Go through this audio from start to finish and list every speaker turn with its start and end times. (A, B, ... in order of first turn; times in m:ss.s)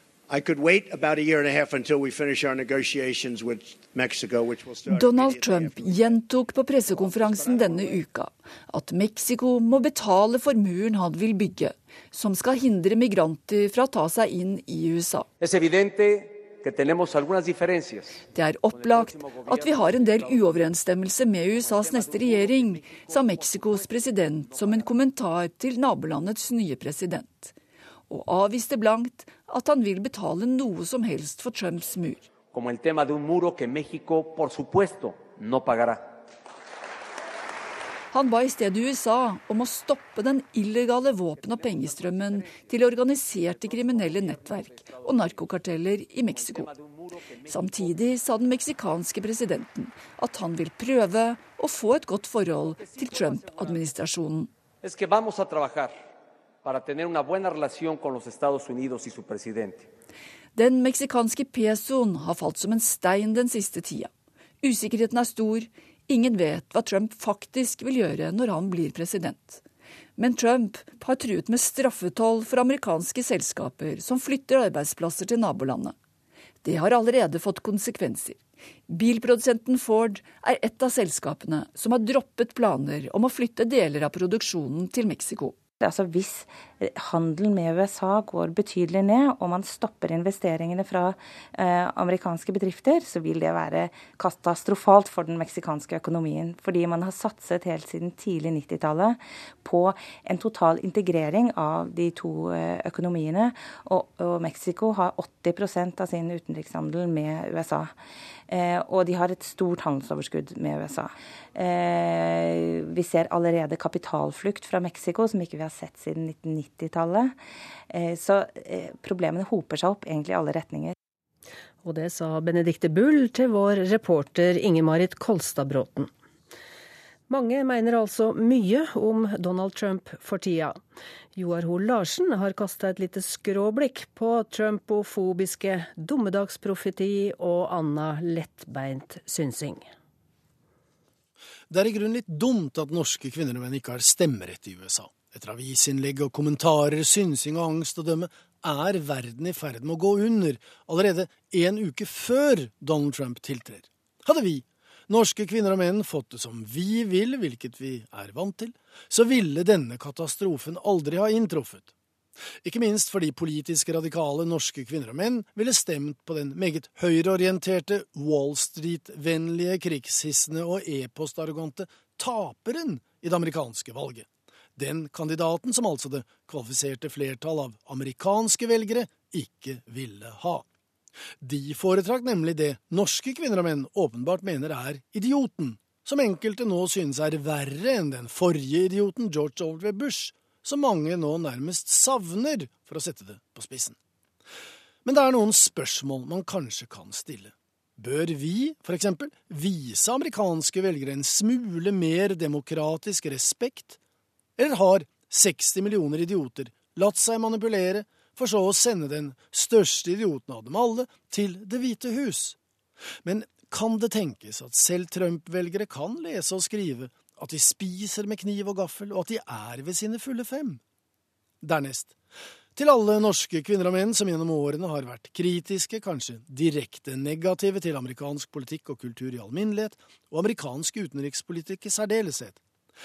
0:00.3-0:06.2 A
0:04.8-0:15.3 B
0:06.9-0:08.0 A
0:15.4-0:20.7 C
0:18.4-0:27.6 B
0:21.6-0:23.9 C
0:28.1-0:32.3 B
0:32.5-0:36.1 C
0:38.1-0:46.7 B
0:41.4-0:42.7 C
0:43.5-0:45.3 C
0:46.4-0:47.9 C
0:47.5-0:54.5 B
0:52.8-0:53.8 C
0:54.8-0:56.0 C
0:56.6-0:59.9 C
1:00.6-1:04.1 B
1:04.6-1:09.6 B
1:10.2-1:16.0 B
1:16.6-1:25.6 B
1:25.8-1:48.0 D
1:48.5-1:57.4 D
1:57.9-2:01.0 D
2:01.8-2:06.1 E
2:07.3-2:10.8 E
2:11.4-2:19.9 E
2:21.7-2:41.9 F
2:42.6-3:00.7 F
3:01.4-3:14.0 F
3:15.0-3:24.0 F
3:24.6-3:32.6 F
3:33.2-3:40.8 F
3:41.6-3:42.2 F
3:42.8-3:52.6 F